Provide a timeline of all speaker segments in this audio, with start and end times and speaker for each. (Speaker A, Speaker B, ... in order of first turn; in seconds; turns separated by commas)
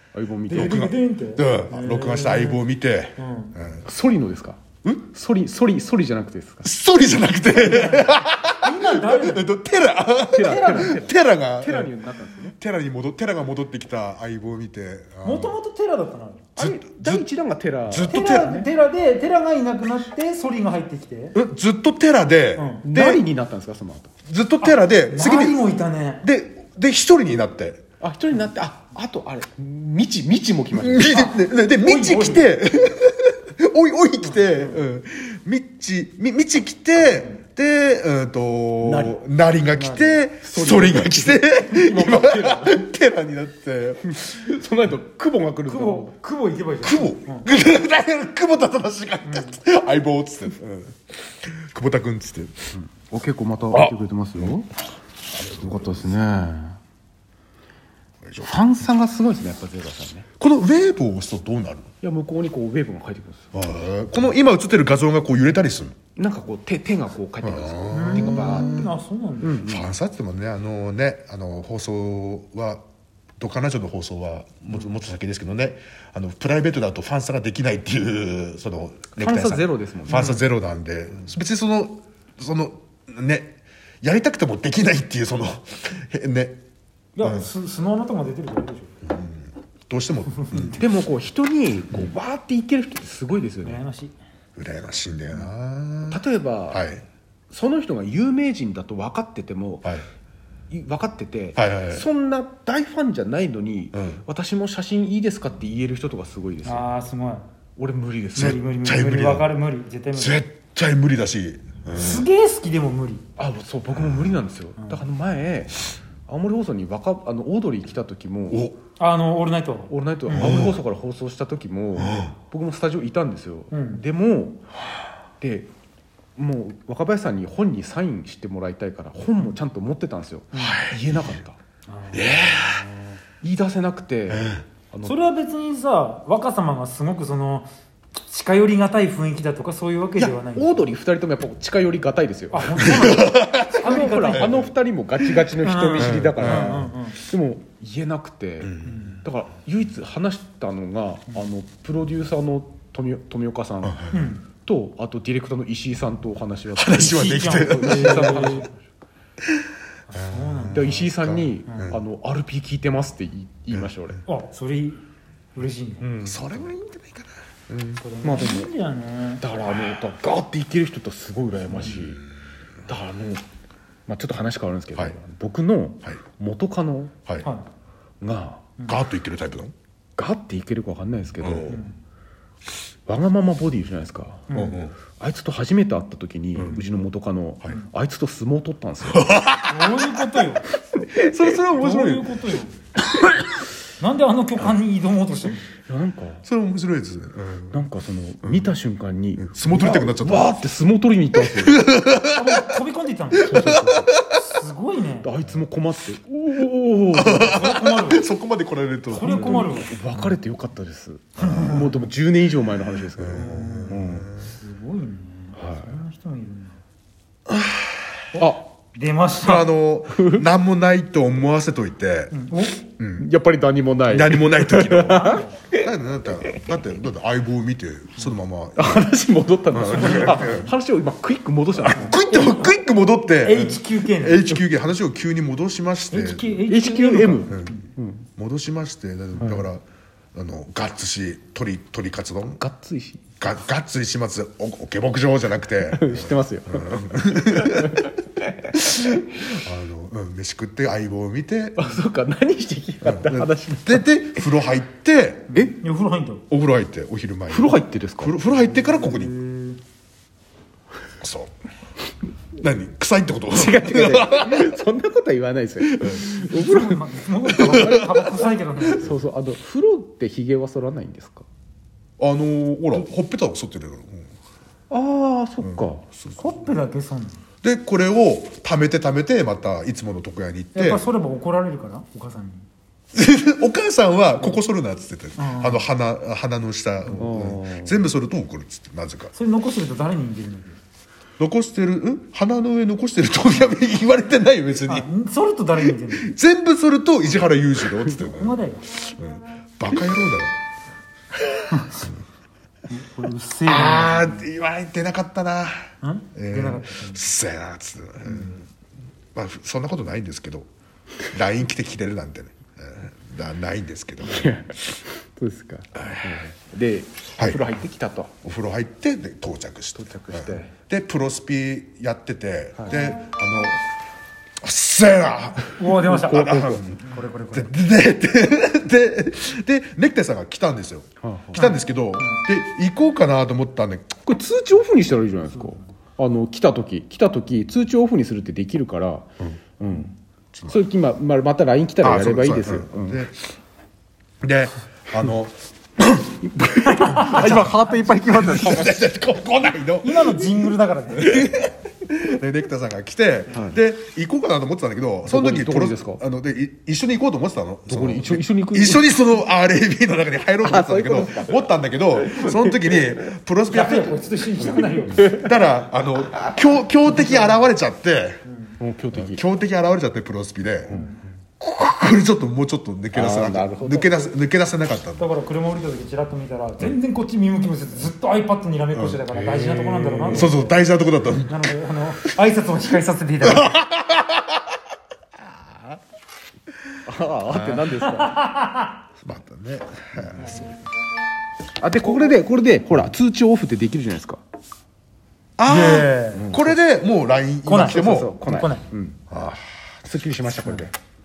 Speaker A: 0.1-0.8, Speaker B: 0.5-2.6, Speaker C: 0.5-3.9, Speaker B: 3.2-3.5, Speaker A: 3.8-6.7, Speaker C: 6.6-15.6, Speaker B: 7.5-9.5, Speaker A: 10.3-12.6, Speaker B: 10.4-11.1, Speaker B: 15.2-16.5, Speaker A: 16.6-18.7, Speaker C: 16.6-17.3, Speaker C: 17.9-18.6, Speaker B: 18.1-21.4, Speaker C: 21.3-23.2, Speaker B: 22.5-22.9, Speaker A: 22.8-24.1, Speaker C: 24.2-25.6, Speaker B: 24.6-26.2, Speaker C: 26.2-27.8, Speaker A: 28.0-31.2, Speaker C: 30.7-44.2, Speaker B: 31.1-32.6, Speaker A: 38.8-39.2, Speaker B: 39.7-40.2, Speaker A: 40.4-42.9, Speaker A: 44.0-46.1, Speaker B: 45.6-47.5, Speaker C: 46.8-52.7, Speaker B: 49.2-49.6, Speaker A: 52.7-54.7, Speaker C: 53.7-54.5, Speaker C: 55.3-56.1, Speaker A: 55.6-56.8, Speaker C: 58.2-58.5, Speaker A: 58.4-60.3, Speaker C: 60.4-61.9, Speaker A: 62.0-63.5, Speaker C: 63.5-66.0, Speaker A: 66.2-68.8, Speaker C: 67.4-68.9, Speaker B: 67.9-69.7, Speaker A: 69.4-69.9, Speaker C: 69.5-72.8, Speaker C: 73.4-86.6, Speaker A: 79.2-80.3, Speaker B: 80.1-80.4, Speaker B: 87.2-88.9, Speaker C: 87.2-87.5, Speaker C: 89.0-90.8, Speaker B: 90.4-90.7, Speaker A: 90.8-93.8, Speaker B: 93.6-94.1, Speaker C: 94.5-97.0, Speaker A: 96.1-96.8, Speaker A: 97.5-99.9, Speaker A: 100.7-106.9, Speaker C: 101.5-102.0, Speaker C: 103.9-104.2, Speaker B: 106.6-107.4, Speaker A: 107.8-108.6, Speaker B: 108.3-110.4, Speaker C: 108.3-109.5, Speaker C: 110.1-112.3, Speaker B: 111.9-113.2, Speaker A: 113.4-118.6, Speaker B: 114.8-115.0, Speaker C: 118.5-118.8, Speaker B: 119.0-120.6, Speaker A: 119.9-124.6, Speaker C: 120.3-120.7, Speaker C: 122.0-122.3, Speaker B: 123.7-124.0, Speaker A: 125.4-125.7, Speaker A: 126.3-131.6, Speaker B: 130.5-130.8, Speaker C: 130.6-131.3, Speaker B: 131.9-132.6, Speaker C: 132.1-132.9, Speaker A: 133.4-135.2, Speaker C: 134.3-134.6, Speaker B: 135.0-137.7, Speaker B: 138.2-140.8, Speaker A: 140.2-154.0, Speaker B: 142.5-144.7, Speaker C: 142.8-144.7, Speaker B: 145.6-147.2, Speaker C: 146.0-146.8, Speaker C: 148.6-149.1, Speaker B: 148.8-149.2, Speaker C: 153.8-154.2, Speaker B: 154.1-154.4, Speaker A: 154.5-158.7, Speaker C: 156.7-158.5, Speaker B: 156.9-158.7, Speaker B: 160.1-160.9, Speaker C: 160.1-162.0, Speaker A: 160.7-164.2, Speaker B: 161.7-161.9, Speaker B: 164.2-165.0, Speaker B: 165.5-166.1, Speaker C: 166.0-168.0, Speaker A: 166.2-166.7, Speaker B: 168.0-169.4, Speaker A: 168.2-168.7, Speaker A: 169.4-172.2, Speaker A: 172.9-173.4, Speaker A: 174.1-177.1, Speaker A: 178.2-178.7, Speaker C: 178.8-179.7, Speaker A: 180.2-181.8, Speaker C: 181.4-181.8, Speaker B: 181.7-181.9, Speaker A: 183.1-184.5, Speaker B: 184.5-184.8, Speaker C: 184.5-184.9, Speaker A: 185.1-189.3, Speaker C: 189.1-190.2, Speaker B: 189.7-190.7, Speaker C: 191.1-192.4, Speaker B: 191.7-192.8, Speaker B: 194.0-195.7, Speaker A: 195.8-196.4, Speaker C: 196.4-197.8, Speaker A: 197.7-201.8, Speaker C: 198.4-198.7, Speaker C: 199.4-200.6, Speaker C: 201.4-202.7, Speaker B: 202.2-205.3, Speaker C: 203.4-204.2, Speaker A: 203.4-204.1, Speaker A: 205.2-207.6, Speaker C: 207.1-210.3, Speaker B: 207.3-208.3, Speaker B: 209.1-209.9, Speaker A: 209.2-214.3, Speaker B: 211.4-211.9, Speaker C: 213.2-214.5, Speaker B: 213.3-216.8, Speaker A: 215.6-216.0, Speaker C: 217.6-217.8, Speaker B: 218.3-219.7, Speaker A: 218.4-218.7, Speaker C: 219.4-222.4, Speaker A: 220.1-220.4, Speaker B: 222.3-222.8, Speaker C: 223.0-223.3, Speaker A: 223.1-225.8, Speaker C: 224.1-229.1, Speaker B: 225.0-225.6, Speaker A: 228.8-232.2, Speaker C: 229.7-230.7, Speaker B: 229.8-230.7, Speaker C: 231.9-236.6, Speaker B: 231.9-232.8, Speaker B: 233.3-234.6, Speaker B: 236.1-237.8, Speaker A: 236.7-238.3, Speaker C: 237.5-237.7, Speaker C: 238.3-239.8, Speaker A: 239.4-239.7, Speaker C: 240.3-242.6, Speaker A: 242.5-243.2, Speaker C: 243.4-248.1, Speaker A: 245.8-249.2, Speaker C: 248.8-252.0, Speaker A: 251.8-254.5, Speaker C: 253.0-255.6, Speaker A: 255.5-255.8, Speaker B: 255.8-256.4, Speaker C: 256.5-259.3, Speaker A: 257.5-258.4, Speaker B: 258.5-259.8, Speaker C: 261.2-261.5, Speaker C: 262.5-264.7, Speaker A: 263.5-271.5, Speaker B: 266.0-269.2, Speaker C: 267.6-268.1, Speaker C: 272.2-274.3, Speaker A: 274.9-276.0, Speaker C: 275.6-276.5, Speaker B: 276.4-277.4, Speaker C: 277.6-281.0, Speaker B: 280.7-282.6, Speaker C: 283.1-289.3, Speaker B: 285.4-285.9, Speaker A: 287.2-288.1, Speaker B: 289.3-290.8, Speaker C: 291.4-295.1, Speaker B: 294.9-296.3, Speaker C: 295.8-298.6, Speaker B: 298.1-298.9, Speaker C: 299.1-300.5, Speaker B: 301.7-302.1, Speaker B: 302.9-304.4, Speaker C: 303.6-308.7, Speaker B: 306.0-307.2, Speaker C: 309.3-310.7, Speaker C: 311.2-314.6, Speaker A: 314.2-318.3, Speaker C: 315.9-316.4, Speaker C: 318.4-323.8, Speaker A: 319.9-320.7, Speaker C: 324.6-327.0, Speaker B: 325.7-327.7, Speaker A: 326.0-326.9, Speaker C: 327.5-334.2, Speaker A: 331.2-331.7, Speaker B: 331.5-332.4, Speaker A: 334.2-339.3, Speaker A: 339.8-340.1, Speaker C: 340.5-340.8, Speaker A: 340.7-343.2, Speaker C: 342.0-343.4, Speaker C: 344.4-345.6, Speaker A: 346.1-349.0, Speaker B: 347.0-347.8, Speaker C: 347.1-368.4, Speaker B: 350.0-351.4, Speaker A: 353.5-353.8, Speaker A: 355.2-356.2, Speaker A: 357.9-359.1, Speaker A: 360.6-363.1, Speaker B: 363.7-365.5, Speaker B: 367.1-367.6, Speaker B: 368.4-368.8, Speaker A: 368.8-369.4, Speaker C: 369.1-371.0, Speaker B: 370.9-371.2, Speaker C: 371.6-375.3, Speaker A: 373.1-374.3, Speaker B: 375.2-380.7, Speaker C: 378.9-379.2, Speaker A: 379.3-380.5, Speaker C: 380.3-381.6, Speaker B: 381.5-383.8, Speaker C: 383.5-384.4, Speaker A: 387.1-388.4, Speaker C: 387.5-387.8, Speaker B: 388.1-388.9, Speaker C: 389.2-390.7, Speaker B: 390.4-390.7, Speaker A: 391.8-394.4, Speaker C: 395.6-398.3, Speaker B: 395.6-396.5, Speaker A: 396.3-396.8, Speaker B: 397.6-398.9, Speaker A: 397.9-399.2, Speaker C: 399.3-400.0, Speaker A: 400.0-400.9